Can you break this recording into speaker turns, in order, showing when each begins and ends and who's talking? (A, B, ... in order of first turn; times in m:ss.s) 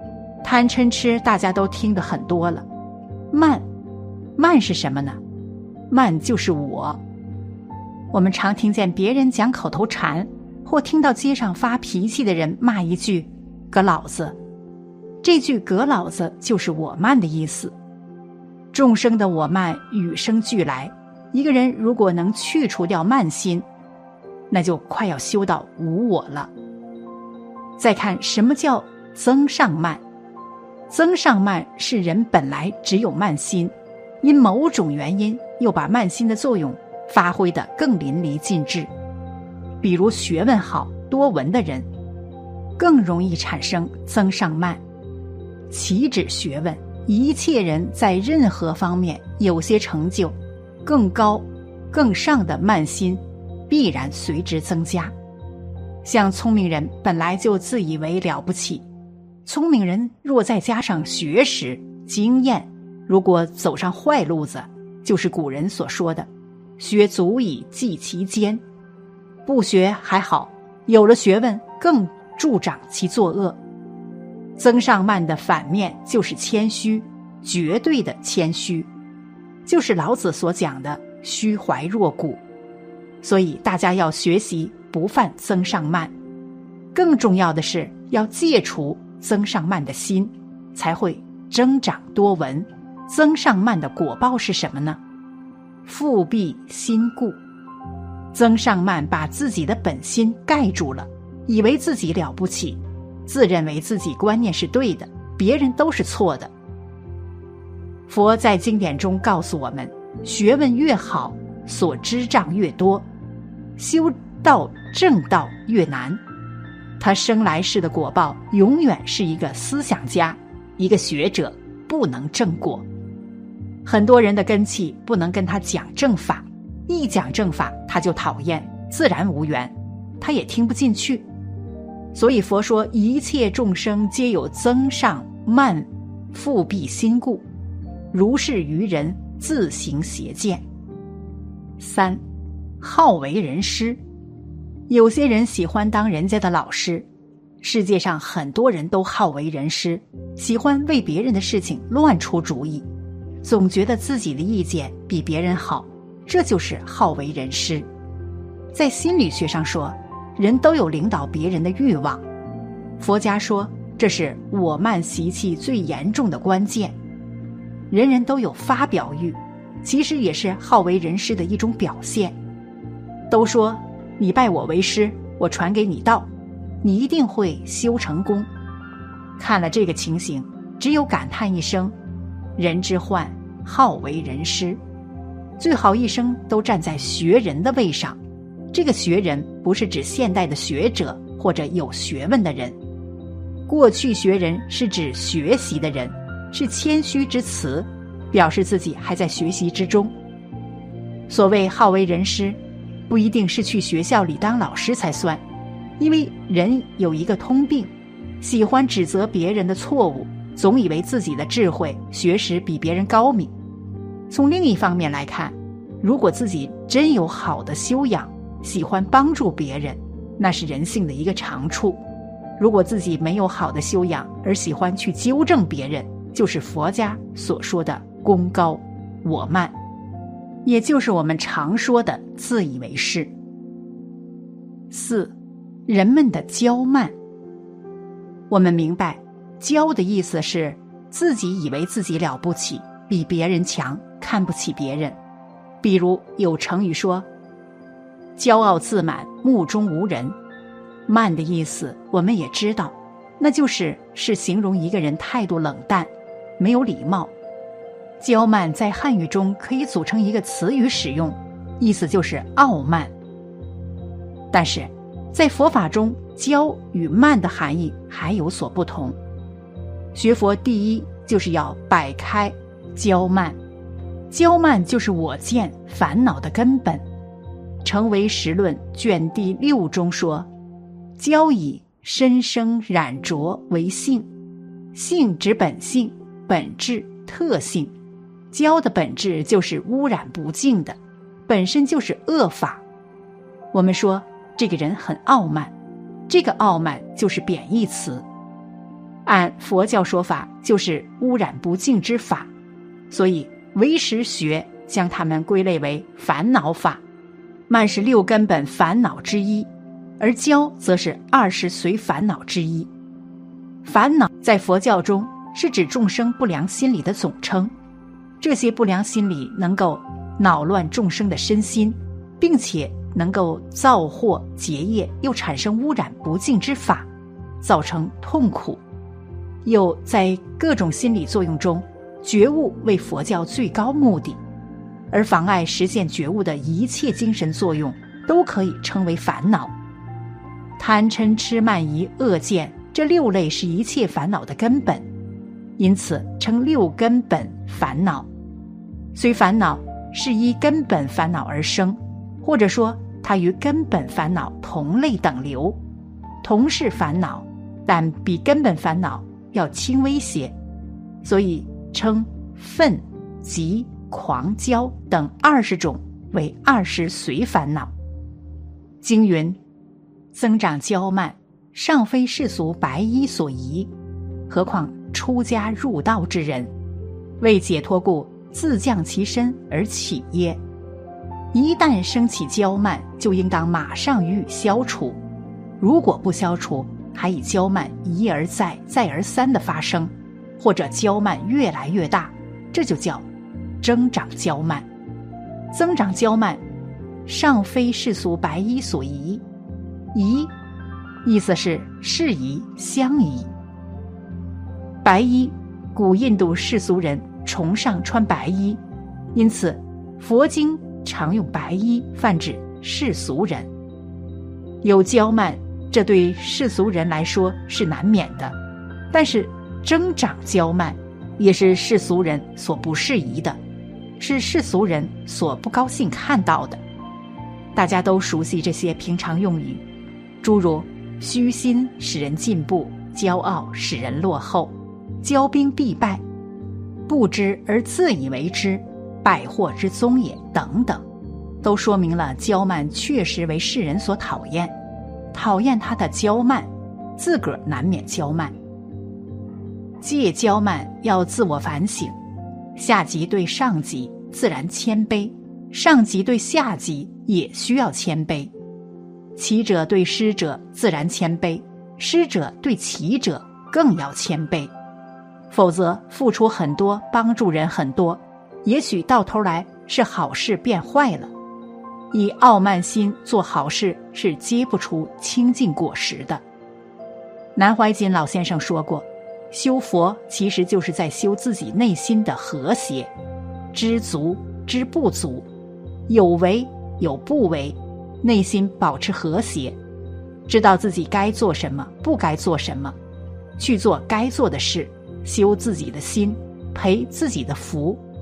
0:00.4-0:02.7 A
0:03.3-0:03.6 A
0:04.4-0:05.2 A
0:05.9-0:07.0 A
0:08.1-0:14.4 A
0:15.2-0:17.7 A
0:18.7-0:23.7 A
0:24.5-0:26.5 A
0:27.8-0:30.0 A
0:30.9-0:38.9 A
0:39.8-0:41.9 A
0:42.8-0:44.8 A
0:45.7-0:55.1 A
0:56.0-0:58.9 A
0:59.4-1:08.6 A
1:09.4-1:13.6 A
1:14.6-1:18.9 A
1:19.7-1:22.4 A
1:23.2-1:26.1 A
1:26.9-1:35.0 A
1:35.8-1:37.4 A
1:38.3-1:46.5 A
1:48.1-1:53.1 A
1:53.8-1:56.2 A
1:57.0-2:02.9 A
2:03.8-2:11.2 A
2:12.1-2:17.5 A
2:18.1-2:20.6 A
2:21.8-2:22.2 A
2:22.8-2:24.0 A
2:24.9-2:27.1 A
2:27.6-2:32.9 A
2:33.4-2:37.9 A
2:38.7-2:42.2 A
2:43.0-2:47.0 A
2:47.9-2:52.4 A
2:53.3-2:56.3 A
2:56.8-2:58.5 A
2:59.4-3:02.0 A
3:02.6-3:04.8 A
3:05.6-3:08.2 A
3:08.7-3:12.8 A
3:13.7-3:20.1 A
3:21.3-3:22.6 A
3:23.1-3:25.4 A
3:26.0-3:33.5 A
3:34.3-3:42.0 A
3:42.6-3:49.8 A
3:50.6-3:53.3 A
3:54.9-3:55.4 A
3:55.9-3:57.2 A
3:58.5-4:05.2 A
4:05.8-4:07.3 A
4:08.4-4:10.4 A
4:11.1-4:17.3 A
4:18.2-4:23.1 A
4:24.5-4:29.2 A
4:30.2-4:33.6 A
4:34.3-4:37.0 A
4:37.8-4:40.5 A
4:41.2-4:44.3 A
4:44.9-4:47.9 A
4:48.5-4:52.8 A
4:53.7-4:55.7 A
4:56.3-4:58.2 A
4:59.3-5:02.5 A
5:03.1-5:07.0 A
5:07.7-5:09.7 A
5:10.2-5:12.9 A
5:13.8-5:17.7 A
5:18.4-5:27.1 A
5:27.6-5:28.8 A
5:29.6-5:34.4 A
5:35.1-5:39.7 A
5:40.8-5:45.0 A
5:45.8-5:48.3 A
5:49.1-5:55.8 A
5:56.4-6:00.5 A
6:01.2-6:07.9 A
6:09.0-6:09.6 A
6:10.3-6:13.9 A
6:14.5-6:16.7 A
6:17.4-6:20.6 A
6:21.5-6:25.2 A
6:25.8-6:33.3 A
6:33.8-6:34.9 A
6:35.7-6:36.6 A
6:37.3-6:39.4 A
6:40.1-6:40.5 A
6:41.2-6:43.5 A
6:45.0-6:48.8 A
6:49.3-6:53.7 A
6:54.8-6:58.6 A
6:59.1-7:03.6 A
7:04.2-7:06.8 A
7:07.8-7:09.8 A
7:10.4-7:16.2 A
7:17.1-7:21.0 A
7:21.6-7:24.8 A
7:25.3-7:28.5 A
7:30.0-7:32.2 A
7:32.8-7:38.5 A
7:39.4-7:44.7 A
7:45.5-7:51.3 A
7:52.1-7:56.4 A
7:57.6-8:03.1 A
8:03.7-8:05.5 A
8:06.1-8:09.8 A
8:10.5-8:13.0 A
8:13.6-8:18.0 A